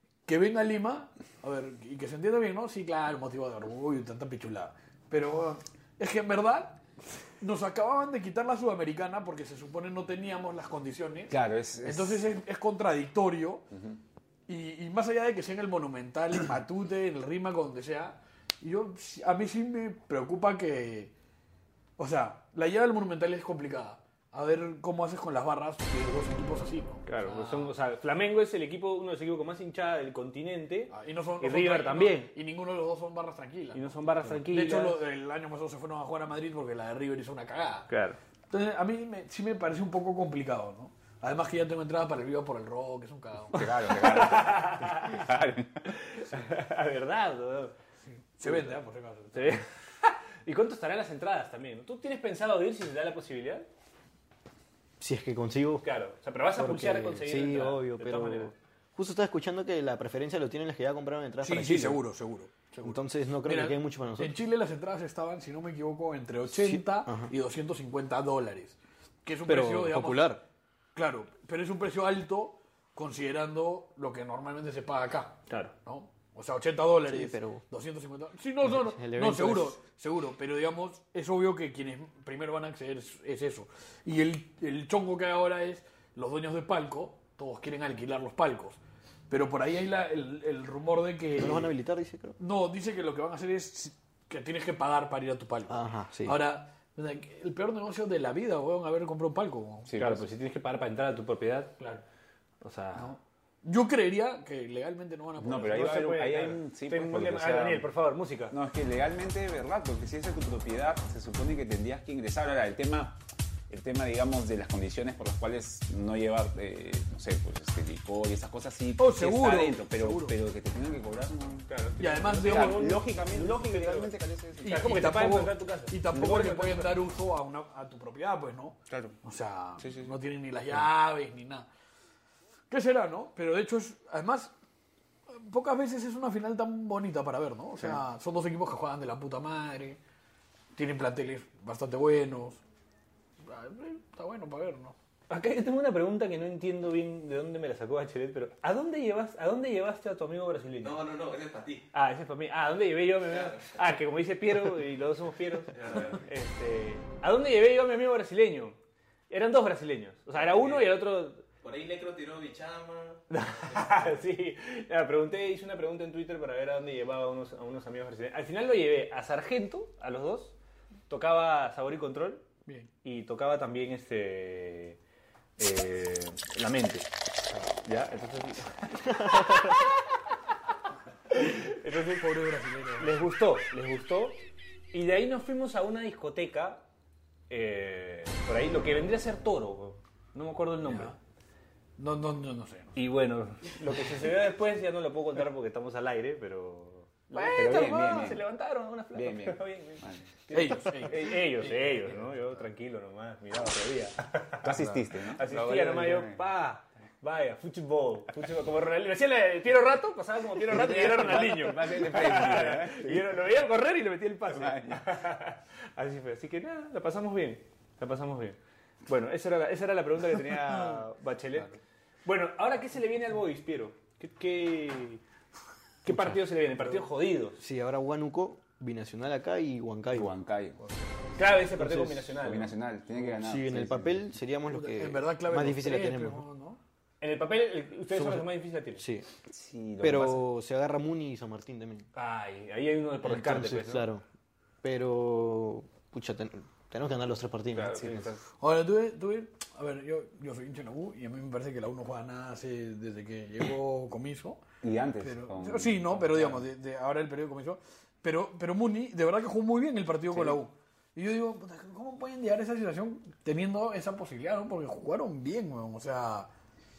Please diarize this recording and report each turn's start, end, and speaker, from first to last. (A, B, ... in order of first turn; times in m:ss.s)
0:00.3-0:06.8 A
0:07.4-0:13.7 A
0:11.3-0:12.2 B
0:13.7-0:14.0 B
0:14.5-0:21.1 A
0:22.0-0:27.7 A
0:27.1-0:32.3 C
0:30.9-0:33.8 A
0:33.7-0:35.0 C
0:34.4-0:37.9 A
0:37.9-0:38.2 C
0:38.5-0:43.7 A
0:43.5-0:46.0 B
0:43.7-0:45.2 C
0:45.9-0:47.7 C
0:48.2-0:49.6 A
0:49.3-0:53.7 C
0:55.0-0:55.9 D
0:55.8-0:58.5 C
0:56.6-1:02.0 D
1:01.4-1:10.4 A
1:02.8-1:04.4 D
1:06.5-1:07.3 D
1:09.5-1:10.4 D
1:11.0-1:28.8 A
1:15.5-1:15.7 C
1:17.1-1:17.6 D
1:18.6-1:19.8 D
1:29.3-1:31.7 A
1:31.4-1:32.4 D
1:32.4-1:39.9 A
1:35.7-1:36.4 D
1:39.9-1:40.3 B
1:40.0-1:42.0 C
1:42.6-1:43.2 C
1:43.0-1:46.1 A
1:45.4-1:47.9 B
1:45.7-1:48.6 C
1:48.5-1:53.2 B
1:53.7-2:01.7 B
1:59.0-2:00.4 A
2:01.7-2:06.0 C
2:02.0-2:03.0 A
2:02.4-2:05.1 B
2:04.6-2:11.7 A
2:06.1-2:07.0 B
2:08.9-2:09.2 B
2:09.8-2:10.2 B
2:12.7-2:14.5 A
2:15.3-2:20.0 A
2:20.8-2:22.6 A
2:23.4-2:25.0 A
2:25.3-2:31.0 C
2:30.8-2:31.9 E
2:31.9-2:38.8 C
2:33.3-2:33.8 E
2:35.7-2:36.2 E
2:39.3-2:41.4 C
2:40.5-2:40.9 E
2:41.6-2:44.2 E
2:43.3-2:50.6 C
2:51.1-2:52.5 C
2:53.0-2:55.0 C
2:55.6-2:57.1 C
2:57.8-3:00.0 C
3:01.3-3:02.4 C
3:02.2-3:03.1 A
3:03.0-3:04.4 C
3:04.9-3:06.8 C
3:07.5-3:11.2 C
3:10.8-3:11.2 A
3:12.0-3:13.0 A
3:13.0-3:45.2 C
3:17.4-3:18.4 B
3:19.1-3:20.3 B
3:20.5-3:21.9 A
3:24.6-3:26.4 B
3:30.6-3:33.4 B
3:34.5-3:35.0 B
3:46.0-3:47.6 C
3:46.1-3:46.5 D
3:47.6-3:50.3 D
3:50.2-3:50.8 B
3:51.4-3:52.8 C
3:51.8-3:52.3 D
3:52.4-3:54.3 B
3:53.2-3:56.4 D
3:54.7-3:56.8 A
3:57.2-3:59.0 C
3:58.1-3:59.3 D
3:59.5-4:00.4 B
4:00.0-4:02.1 D
4:02.2-4:04.1 C
4:03.2-4:04.2 D
4:04.8-4:08.3 D
4:07.7-4:08.4 B
4:08.6-4:14.6 A
4:14.8-4:16.6 B
4:15.2-4:26.5 A
4:20.3-4:20.6 B